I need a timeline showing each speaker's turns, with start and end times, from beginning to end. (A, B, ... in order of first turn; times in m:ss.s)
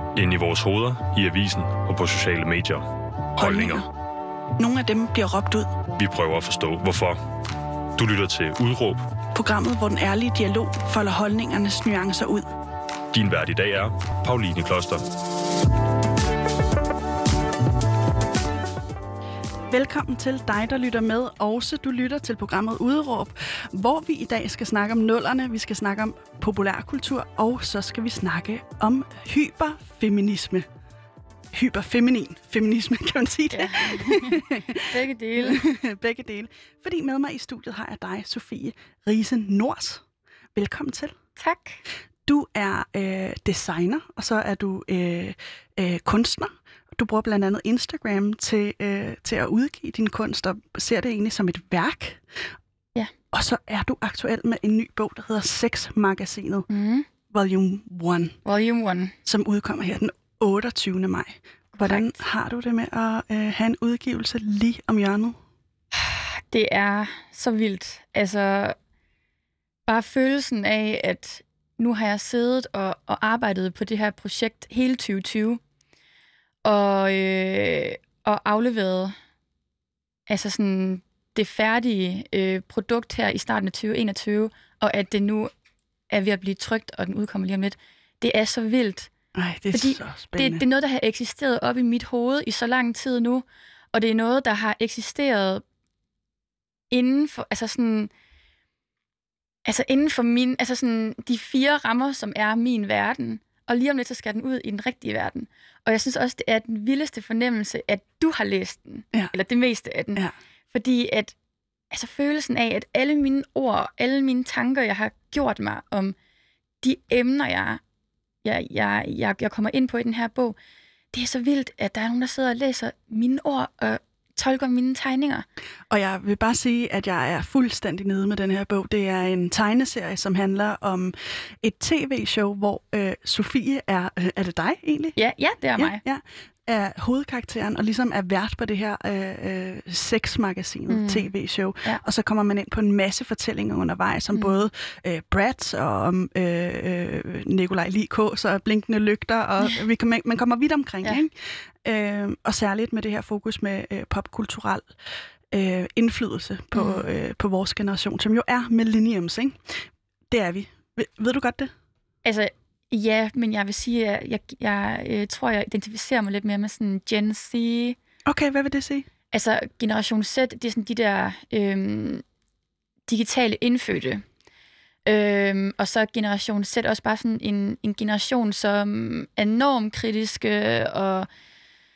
0:00.1-0:03.8 A
0:03.4-0:03.9 B
0:04.6-0:05.7 B
0:05.9-0:07.2 A
0:08.0-0:09.0 A
0:09.4-0:12.5 B
0:13.1-0:15.0 A
0:19.7-0:30.7 B
0:31.5-0:41.2 B
0:33.5-0:35.6 C
0:41.4-0:41.8 C
0:42.2-0:52.5 B
0:53.3-0:56.7 B
0:56.7-0:57.1 C
0:57.3-0:58.4 B
0:58.4-0:59.2 C
0:59.2-1:05.4 B
1:01.7-1:02.2 C
1:05.9-1:08.8 C
1:09.8-1:15.6 C
1:16.6-1:19.1 C
1:20.3-1:25.5 C
1:26.1-1:29.1 C
1:29.3-1:30.6 B
1:29.7-1:35.6 C
1:36.9-1:38.1 C
1:39.6-1:51.3 C
1:51.9-1:56.2 C
1:56.8-1:57.8 C
1:58.4-2:00.6 C
2:01.1-2:05.4 C
2:05.9-2:15.2 B
2:15.2-2:16.0 C
2:15.8-2:34.9 B
2:20.9-2:21.3 C
2:35.5-2:41.7 B
2:36.7-2:37.0 C
2:42.2-2:48.0 C
2:48.2-2:49.1 B
2:49.3-2:52.2 C
2:53.1-2:54.2 C
2:55.0-3:01.3 C